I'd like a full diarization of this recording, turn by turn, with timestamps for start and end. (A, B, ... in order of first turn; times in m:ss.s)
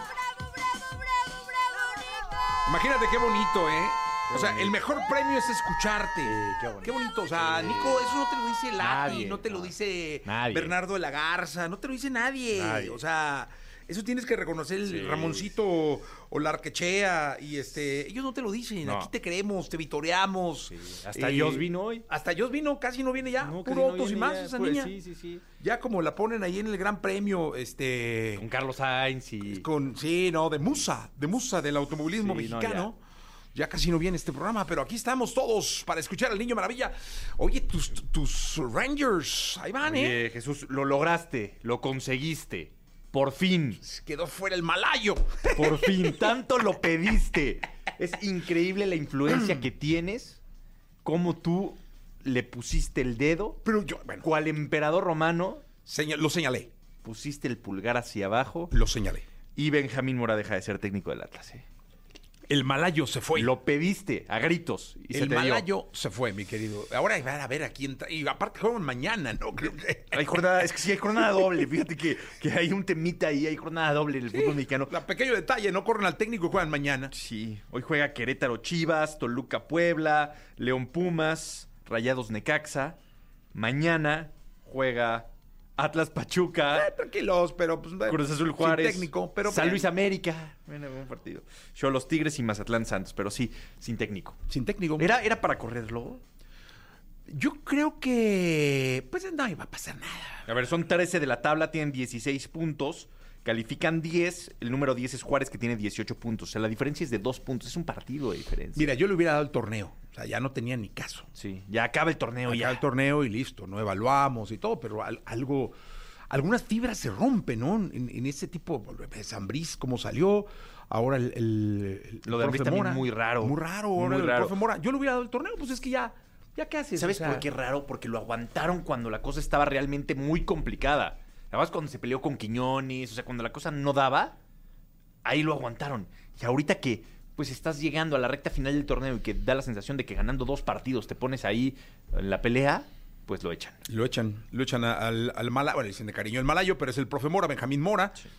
0:02.7-0:25.0 A
0:04.3-0:04.8 B
0:06.2-0:08.1 B
0:08.8-0:10.8 B
0:12.5-0:13.0 B
0:14.8-0:15.5 B
0:18.8-0:19.1 B
0:20.7-0:22.1 B
0:23.4-0:25.4 B
0:25.6-0:28.5 A
0:28.4-0:29.7 B
0:29.5-0:33.0 A
0:32.2-0:32.9 B
0:33.5-0:40.2 A
0:39.8-0:43.8 B
0:43.8-0:46.4 A
0:45.6-0:50.4 B
0:51.0-0:53.6 B
0:53.6-0:54.3 A
0:54.2-0:55.6 B
0:55.9-0:56.7 A
0:57.0-0:58.7 B
0:58.7-0:59.2 A
0:59.6-1:01.6 B
1:02.5-1:03.5 A
1:03.4-1:05.7 B
1:05.1-1:10.4 A
1:10.1-1:15.0 B
1:14.3-1:17.1 A
1:17.1-1:23.0 B
1:23.5-1:26.9 B
1:26.7-1:29.9 A
1:28.1-1:34.4 B
1:34.5-1:35.1 A
1:35.0-1:36.2 B
1:37.3-1:40.5 A
1:40.5-1:49.0 B
1:48.8-1:51.3 A
1:51.3-1:52.8 B
1:52.5-1:55.8 A
1:56.3-2:07.5 A
2:02.2-2:04.6 B
2:07.0-2:14.4 B
2:15.2-2:23.8 B
2:23.9-2:28.2 A